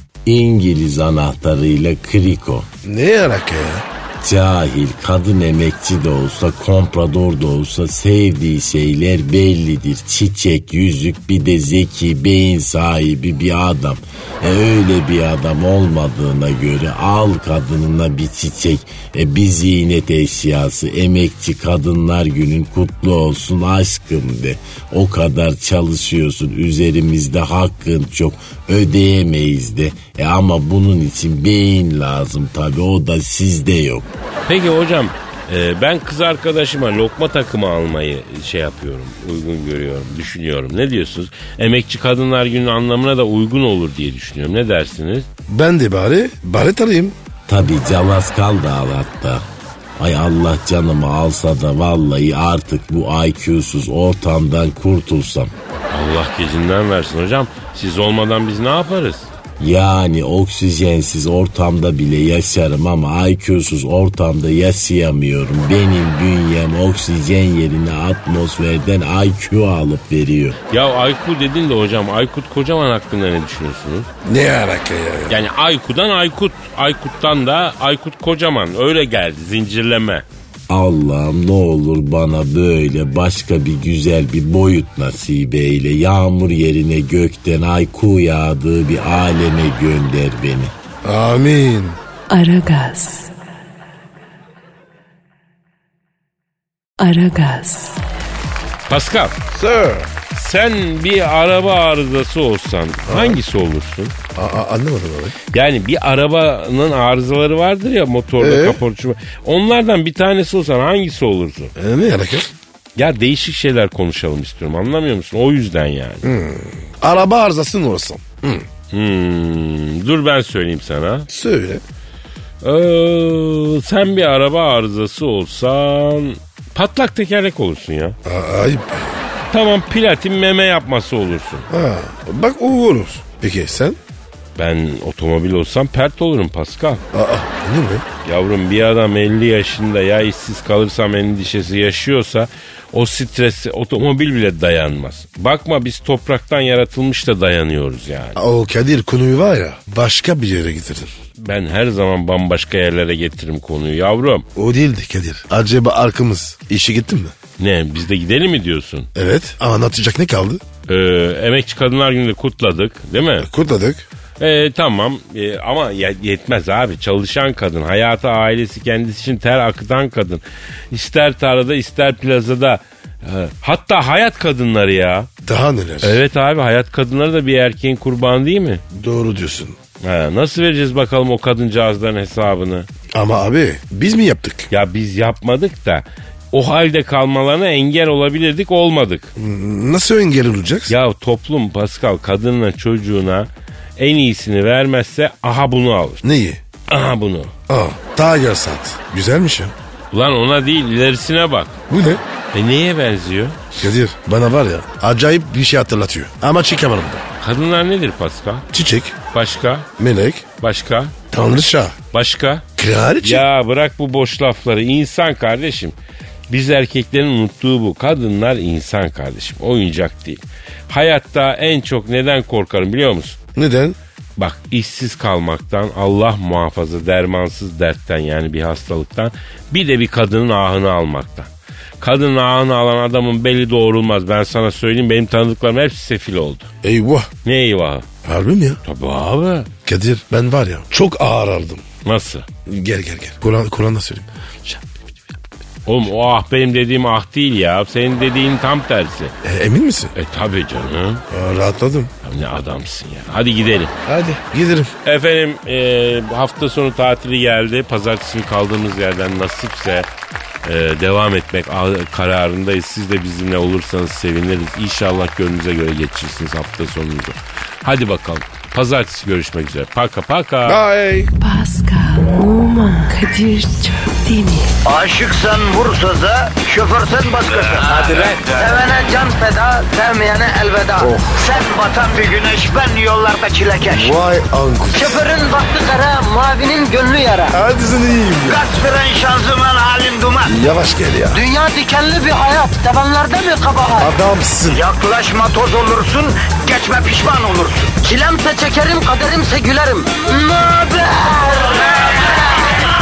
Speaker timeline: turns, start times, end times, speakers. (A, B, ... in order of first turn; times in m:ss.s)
0:00.3-0:02.7 A
0:02.8-0:03.8 B
0:04.2-0:34.1 A
0:34.5-0:45.3 C
0:45.5-0:47.2 B
0:47.5-0:49.4 A
0:50.0-0:55.5 A
0:55.9-0:59.3 C
0:59.6-1:10.6 A
1:10.7-1:14.1 C
1:14.2-1:15.4 B
1:15.3-1:20.2 C
1:20.7-1:30.7 A
1:31.0-1:32.0 B
1:32.3-1:33.3 D
1:37.0-1:38.0 D
1:38.9-1:39.4 C
1:39.5-1:40.1 B
1:40.3-1:44.2 C
1:43.1-1:43.4 B
1:44.4-1:45.4 B
1:45.5-1:51.7 C
1:48.4-1:48.8 B
1:51.8-1:52.5 B
1:53.0-1:56.3 C
1:56.2-1:58.7 B
1:58.9-2:01.3 C
2:01.3-2:01.8 B
2:02.6-2:08.2 C
2:08.2-2:09.2 B
2:09.5-2:11.7 C
2:11.7-2:14.0 B
2:14.6-2:17.0 C
2:17.1-2:18.1 B
2:18.2-2:28.4 C
2:28.4-2:31.1 B
2:31.4-2:34.5 C
2:34.6-2:37.3 B
2:37.6-2:39.1 C
2:39.2-2:40.6 B
2:40.9-2:43.5 C
2:43.4-2:44.0 B
2:44.4-2:55.3 C
2:55.4-2:56.2 B
2:56.0-2:58.8 C
2:58.9-2:59.8 B
3:00.0-3:02.9 C
3:03.1-3:04.7 B
3:04.7-3:09.3 C
3:09.4-3:11.0 B
3:10.9-3:16.2 C
3:16.2-3:16.6 B
3:16.9-3:17.5 C
3:17.7-3:19.7 B
3:20.1-3:21.8 C
3:21.9-3:22.2 B
3:22.5-3:23.6 C
3:23.8-3:27.2 B
3:27.4-3:28.7 C
3:28.7-3:29.2 B
3:29.3-3:29.9 C
3:30.0-3:30.5 B
3:30.6-3:31.2 C
3:31.3-3:32.0 B
3:32.1-3:32.6 C
3:32.8-3:33.5 B
3:33.2-3:36.0 C
3:36.5-3:43.4 C
3:43.6-3:44.0 B
3:44.4-3:56.7 C
3:56.8-3:57.3 B
3:57.4-3:58.1 C
3:58.2-3:58.8 B
3:58.8-3:59.7 C
3:59.8-4:01.8 B
4:02.0-4:02.5 C
4:02.7-4:05.4 B
4:05.9-4:09.3 C
4:09.4-4:10.1 B
4:10.2-4:11.2 C
4:11.3-4:12.1 B
4:12.2-4:13.9 C
4:14.1-4:14.9 B
4:15.0-4:20.1 C
4:20.6-4:30.8 C
4:30.7-4:31.3 B
4:31.4-4:34.8 D
4:34.8-4:44.2 E
4:41.0-4:41.4 B
4:43.9-4:45.2 B
4:44.9-4:47.6 E
4:47.5-4:48.6 B
4:48.5-4:50.6 E
4:50.5-4:51.4 B
4:51.3-4:54.1 E
4:54.0-4:54.8 B
4:54.7-5:02.9 E